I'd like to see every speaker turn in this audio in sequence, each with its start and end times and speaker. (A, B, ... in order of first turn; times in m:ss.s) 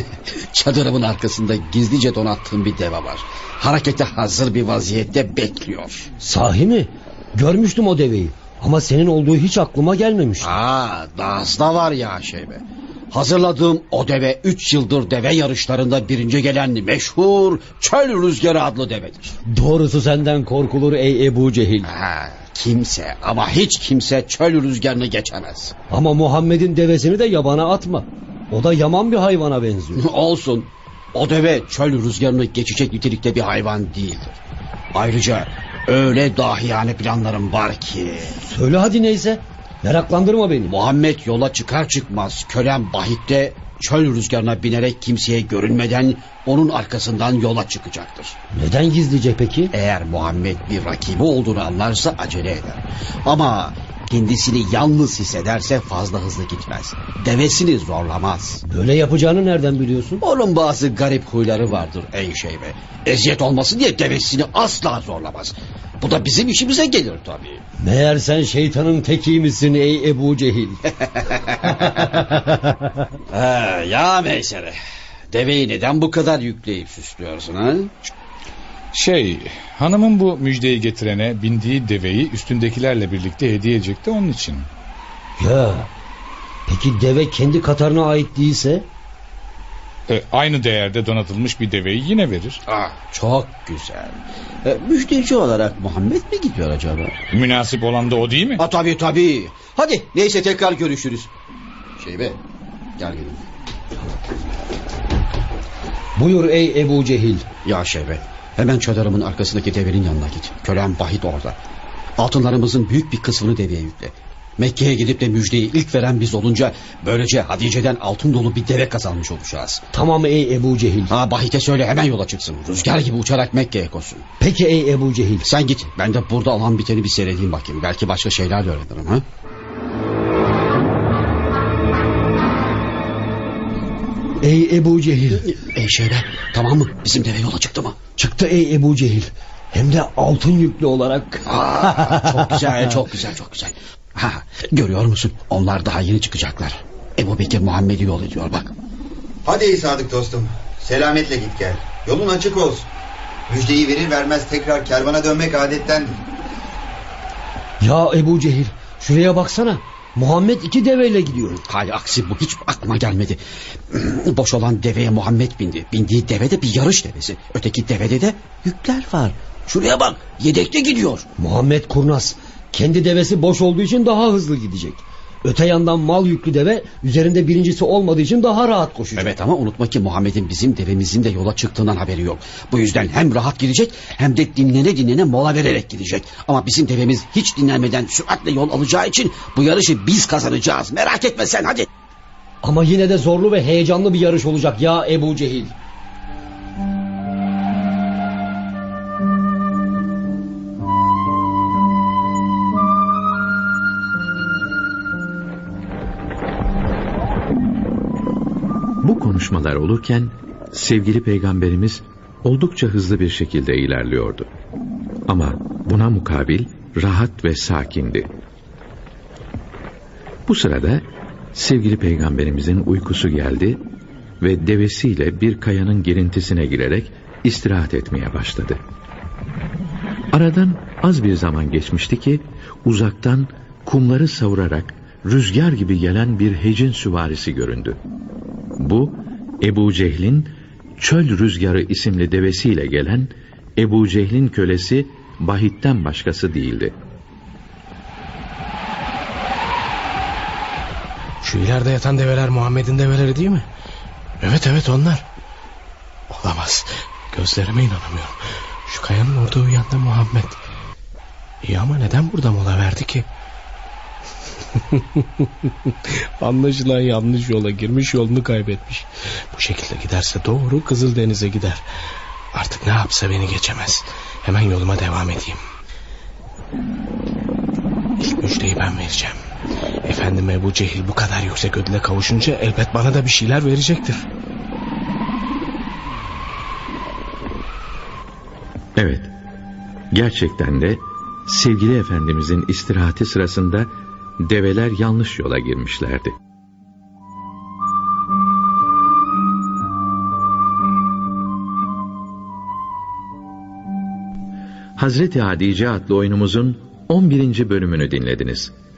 0:00.3-0:06.1 A
0:06.2-0:10.5 B
0:10.4-0:19.4 A
0:19.4-0:21.9 B
0:21.8-0:25.7 A
0:25.9-0:30.0 B
0:30.0-0:34.4 A
0:34.9-0:38.4 A
0:38.4-0:40.7 B
0:40.7-0:48.4 A
0:48.5-0:49.7 B
0:49.7-0:58.6 A
0:58.6-1:00.2 B
1:00.2-1:07.6 A
1:07.8-1:10.9 B
1:12.0-1:12.6 B
1:13.3-1:14.8 A
1:15.3-1:17.9 A
1:18.9-1:24.7 C
1:25.4-1:25.9 B
1:26.6-1:28.9 B
1:30.1-1:32.6 C
1:32.7-1:37.1 A
1:37.3-1:38.6 C
1:38.6-1:41.3 A
1:42.0-1:42.4 A
1:43.0-1:43.4 A
1:46.2-1:47.4 B
1:47.6-1:51.6 A
1:52.2-1:59.8 A
1:59.9-2:01.1 B
2:01.1-2:04.2 A
2:04.4-2:05.5 B
2:05.4-2:09.2 A
2:14.4-2:15.5 B
2:15.5-2:18.0 A
2:18.1-2:22.4 B
2:21.4-2:28.7 A
2:29.4-2:32.9 D
2:33.5-2:36.2 D
2:37.8-2:41.6 B
2:41.6-2:43.4 A
2:43.9-2:51.2 A
2:51.4-2:59.4 B
2:59.2-3:11.9 A
3:12.6-3:15.8 B
3:29.0-3:34.5 E
3:35.3-3:38.3 E
3:40.5-3:43.8 E
3:44.4-3:48.8 E
3:50.3-3:58.0 E
3:58.8-4:07.0 E
4:11.4-4:13.7 F
4:14.4-4:15.2 F
4:16.3-4:20.6 F
4:21.6-4:23.3 F
4:26.4-4:31.8 F
4:32.5-4:35.6 F
4:38.2-4:39.4 F
4:40.0-4:44.3 F
4:49.0-4:49.3 E
4:50.1-4:53.9 E
4:54.4-4:56.4 E
5:05.0-5:08.7 E